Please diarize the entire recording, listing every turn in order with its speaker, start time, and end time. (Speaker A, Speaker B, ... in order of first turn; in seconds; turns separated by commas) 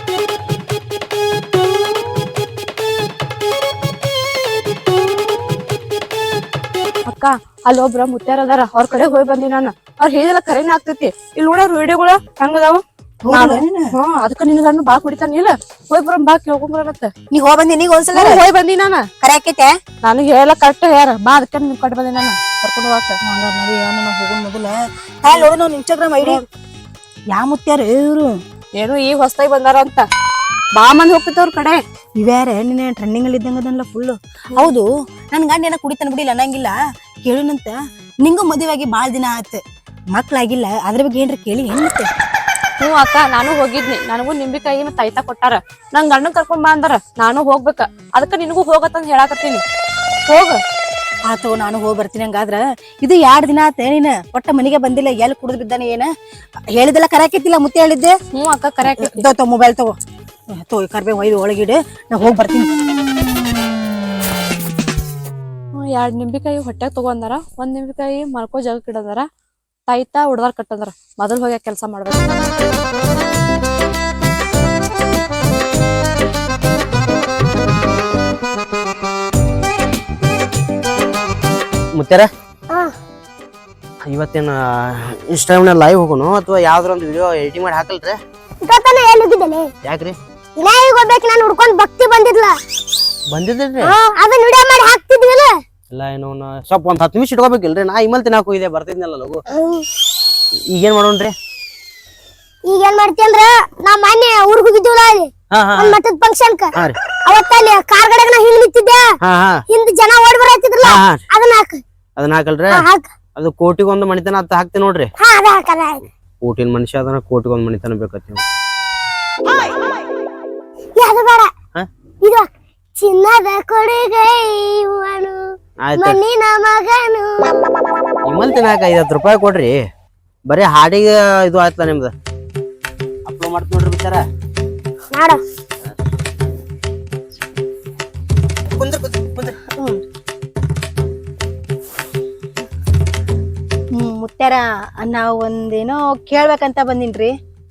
Speaker A: 7.1-12.8, Speaker B: 13.2-13.9, Speaker A: 13.3-17.1, Speaker B: 17.3-18.4, Speaker A: 18.1-19.0, Speaker B: 19.2-19.7, Speaker A: 20.0-22.4, Speaker B: 22.6-26.4, Speaker B: 27.3-28.3, Speaker A: 28.8-30.0, Speaker B: 32.2-36.7, Speaker B: 37.2-39.6, Speaker B: 40.1-42.1, Speaker A: 42.8-49.6, Speaker B: 51.3-56.1, Speaker B: 56.8-58.1, Speaker A: 58.3-59.2, Speaker B: 58.9-59.9, Speaker B: 60.6-62.7, Speaker A: 65.7-69.2, Speaker A: 69.9-72.4, Speaker C: 82.0-82.3, Speaker C: 84.0-88.2, Speaker D: 88.6-89.7, Speaker C: 89.8-90.2, Speaker D: 90.6-92.5, Speaker C: 93.3-93.9, Speaker D: 93.8-95.5, Speaker C: 95.9-99.4, Speaker D: 99.5-99.8, Speaker C: 100.7-101.3, Speaker D: 102.7-106.7, Speaker C: 105.5-106.0, Speaker D: 107.2-109.1, Speaker C: 109.2-109.6, Speaker D: 109.7-111.8, Speaker C: 110.8-111.2, Speaker C: 112.2-112.8, Speaker D: 112.7-113.1, Speaker C: 113.3-115.1, Speaker D: 115.2-116.0, Speaker C: 116.4-118.4, Speaker D: 121.0-121.5, Speaker D: 123.0-125.4, Speaker C: 125.8-126.2, Speaker D: 126.0-127.7, Speaker C: 128.3-129.7, Speaker C: 130.5-132.1, Speaker C: 133.2-134.2, Speaker D: 135.1-135.4, Speaker C: 138.7-139.6, Speaker B: 144.0-147.3